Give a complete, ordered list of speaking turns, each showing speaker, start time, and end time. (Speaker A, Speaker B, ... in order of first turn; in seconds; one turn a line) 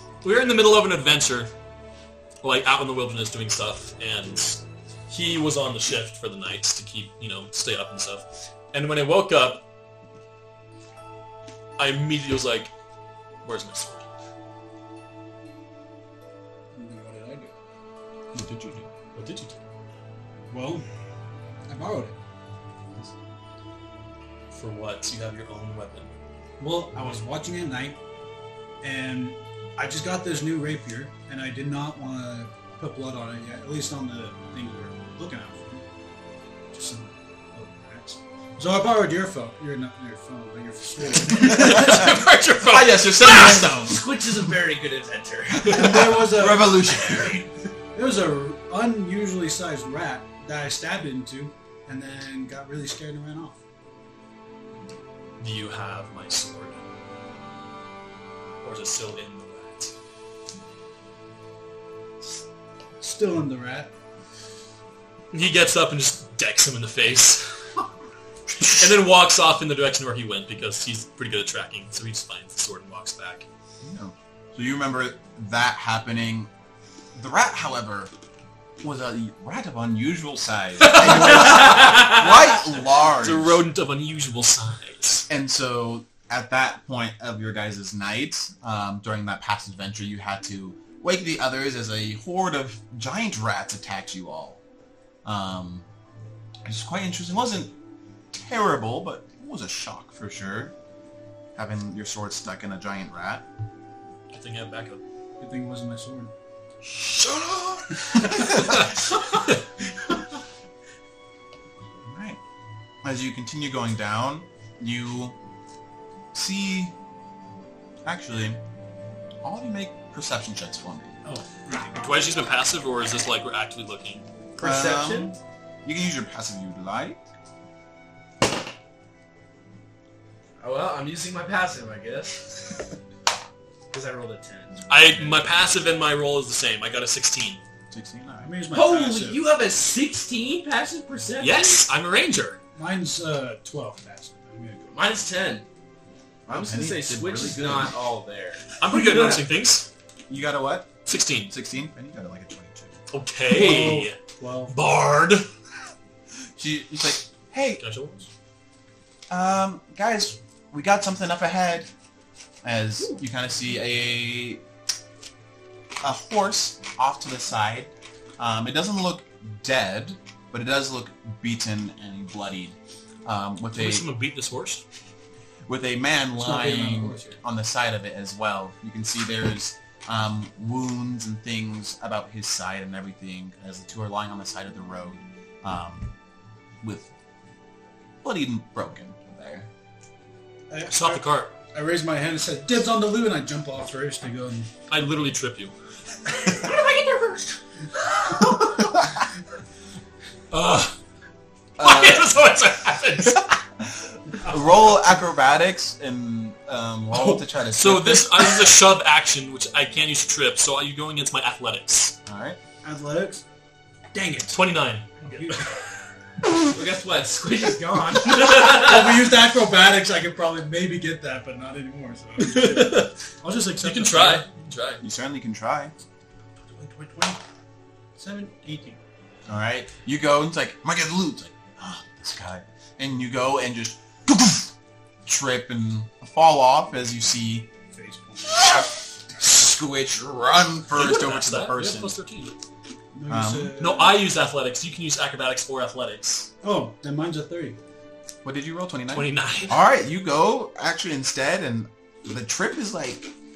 Speaker A: 0.2-1.5
Speaker A: 2.4-9.6
Speaker A: 11.8-12.7
Speaker A: 13.4-14.1
Speaker B: 16.7-17.6
Speaker A: 18.3-19.6
Speaker B: 20.5-20.8
Speaker B: 21.7-22.2
Speaker A: 24.5-26.1
Speaker B: 26.6-28.0
Speaker B: 28.8-35.8
Speaker B: 36.7-42.2
Speaker A: 41.3-43.7
Speaker C: 41.5-44.1
Speaker D: 43.2-46.1
Speaker C: 45.6-47.5
Speaker B: 45.7-46.8
Speaker B: 47.9-53.6
Speaker A: 55.4-56.8
Speaker A: 58.6-59.9
Speaker B: 63.0-63.9
Speaker A: 65.3-67.6
Speaker A: 68.6-73.5
Speaker C: 73.8-76.5
Speaker C: 77.1-78.1
Speaker C: 78.8-83.6
Speaker A: 80.8-82.2
Speaker D: 81.4-82.0
Speaker A: 83.1-85.3
Speaker C: 85.3-94.6
Speaker C: 95.2-95.8
Speaker C: 96.6-97.7
Speaker C: 98.3-100.7
Speaker C: 101.5-103.4
Speaker A: 104.3-105.0
Speaker B: 105.4-106.3
Speaker C: 106.8-109.0
Speaker A: 108.4-108.9
Speaker C: 112.0-112.4
Speaker C: 113.0-115.4
Speaker C: 116.3-116.9
Speaker C: 118.0-118.6
Speaker C: 119.4-121.2
Speaker B: 121.2-122.0
Speaker A: 121.9-124.2
Speaker D: 124.6-125.4
Speaker C: 124.6-127.2
Speaker D: 130.6-132.9
Speaker D: 133.9-135.7
Speaker A: 134.9-137.6
Speaker C: 137.9-138.5
Speaker B: 138.4-139.4
Speaker D: 138.7-141.9
Speaker A: 141.4-142.6
Speaker B: 142.7-144.9
Speaker D: 144.9-145.7
Speaker C: 146.5-147.9
Speaker D: 146.5-149.5
Speaker A: 148.8-149.9
Speaker C: 150.3-153.0
Speaker A: 151.1-151.5
Speaker A: 153.1-155.5
Speaker B: 153.5-154.7
Speaker C: 156.6-157.8
Speaker A: 157.8-158.3
Speaker C: 159.3-161.9
Speaker C: 162.6-164.6
Speaker C: 166.0-174.1
Speaker A: 173.7-174.8
Speaker C: 175.7-186.1
Speaker B: 176.3-177.4
Speaker C: 186.8-187.1
Speaker C: 188.2-189.7
Speaker B: 190.7-194.7
Speaker A: 190.9-191.6
Speaker A: 194.9-195.7
Speaker D: 196.4-198.8
Speaker A: 200.5-200.9
Speaker C: 201.8-202.3
Speaker A: 201.8-203.5
Speaker C: 203.2-208.7
Speaker B: 204.4-204.9
Speaker A: 207.1-212.2
Speaker C: 212.2-212.6
Speaker B: 212.8-213.4
Speaker B: 214.1-215.8
Speaker A: 214.5-215.8
Speaker D: 216.6-219.3
Speaker B: 218.4-224.5
Speaker A: 222.4-223.2
Speaker A: 223.8-225.0
Speaker C: 225.0-225.9
Speaker B: 226.7-227.4
Speaker B: 228.2-229.0
Speaker C: 229.5-234.7
Speaker C: 235.2-237.7
Speaker B: 237.9-238.7
Speaker C: 238.4-242.1
Speaker A: 240.9-242.6
Speaker B: 243.1-244.2
Speaker C: 243.3-243.8
Speaker A: 243.8-246.5
Speaker B: 246.6-247.8
Speaker C: 248.4-253.3
Speaker A: 249.1-249.8